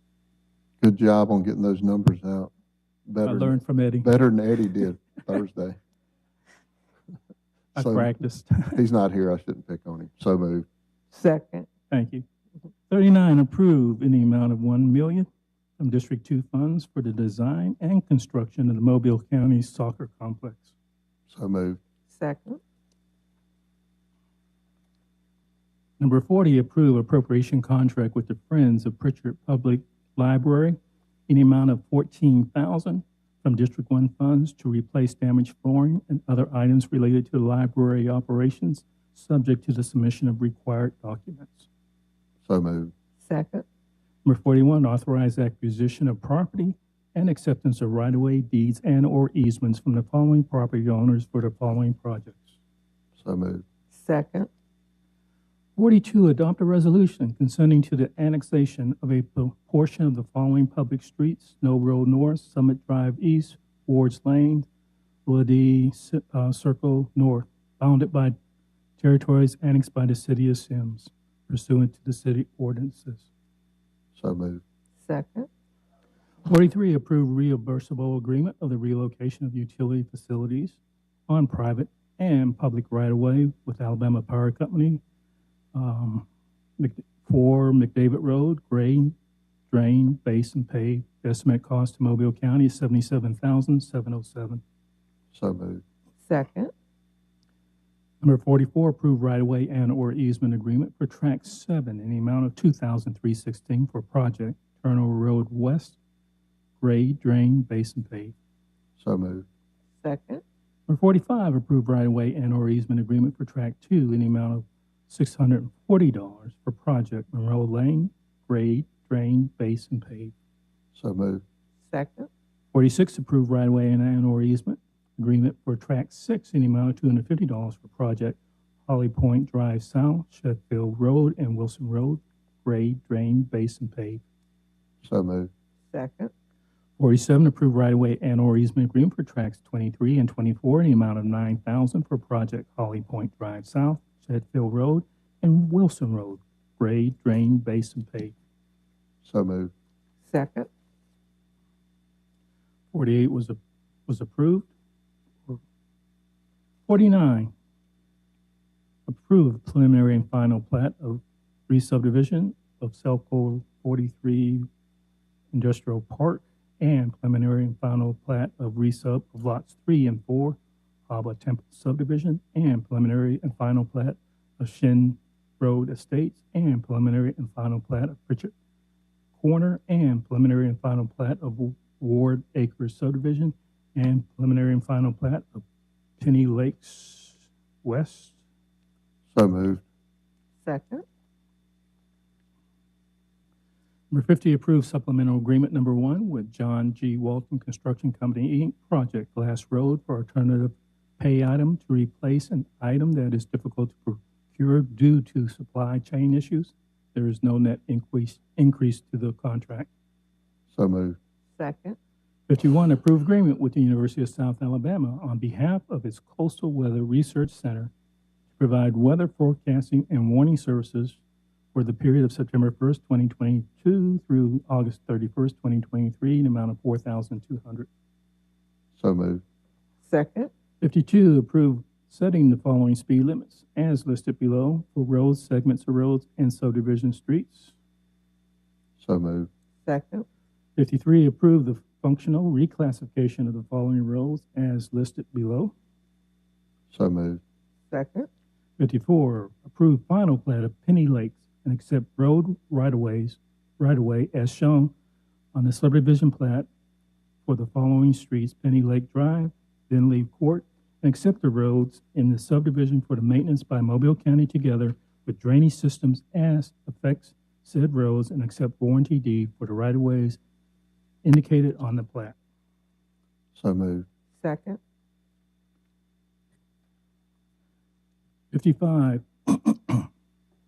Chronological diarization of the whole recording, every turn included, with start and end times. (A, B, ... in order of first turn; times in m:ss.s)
0:00.8-0:02.5 A
0:03.1-0:05.8 A
0:03.2-0:04.2 B
0:07.8-0:08.8 B
0:07.8-0:08.1 A
0:08.7-0:10.7 A
0:11.1-0:11.7 C
0:11.9-0:12.3 B
0:12.9-0:15.3 B
0:15.8-0:20.7 B
0:21.3-0:21.8 A
0:22.1-0:22.6 C
0:26.0-0:30.8 B
0:31.3-0:41.7 B
0:42.4-0:42.9 A
0:43.2-0:43.6 C
0:44.2-0:52.6 B
0:53.2-0:53.6 A
0:53.9-0:54.5 C
0:55.8-1:04.7 B
1:05.3-1:08.4 B
1:09.0-1:13.3 B
1:14.2-1:14.6 A
1:15.0-1:15.5 C
1:16.4-1:25.0 B
1:25.7-1:26.3 B
1:26.8-1:29.1 B
1:29.7-1:34.6 B
1:35.3-1:35.8 A
1:36.2-1:36.7 C
1:38.2-1:46.0 B
1:46.8-1:48.4 B
1:49.0-1:49.5 A
1:50.0-1:50.4 C
1:50.9-2:00.3 B
2:00.9-2:01.4 A
2:01.9-2:02.3 C
2:02.7-2:14.2 B
2:15.0-2:15.5 A
2:15.9-2:16.3 C
2:17.0-2:28.4 B
2:29.2-2:29.7 A
2:30.3-2:30.7 C
2:32.9-2:34.7 B
2:36.9-2:37.5 B
2:39.1-2:44.7 B
2:45.5-2:58.5 B
2:59.4-3:05.6 B
3:06.2-3:08.4 B
3:09.3-3:09.8 A
3:10.6-3:11.0 C
3:14.1-3:29.9 B
3:30.7-3:31.2 A
3:31.6-3:32.0 C
3:32.5-3:37.9 B
3:38.6-3:41.2 B
3:41.7-3:47.9 B
3:49.0-3:49.4 A
3:50.0-3:50.5 C
3:50.8-3:57.7 B
3:59.0-3:59.5 A
3:59.8-4:00.3 C
4:00.8-4:05.7 B
4:06.9-4:07.4 A
4:07.9-4:08.3 C
4:08.8-4:14.9 B
4:15.5-4:16.7 B
4:17.5-4:30.4 B
4:31.2-4:32.4 B
4:33.6-4:34.1 A
4:34.4-4:34.8 C
4:38.5-4:40.1 B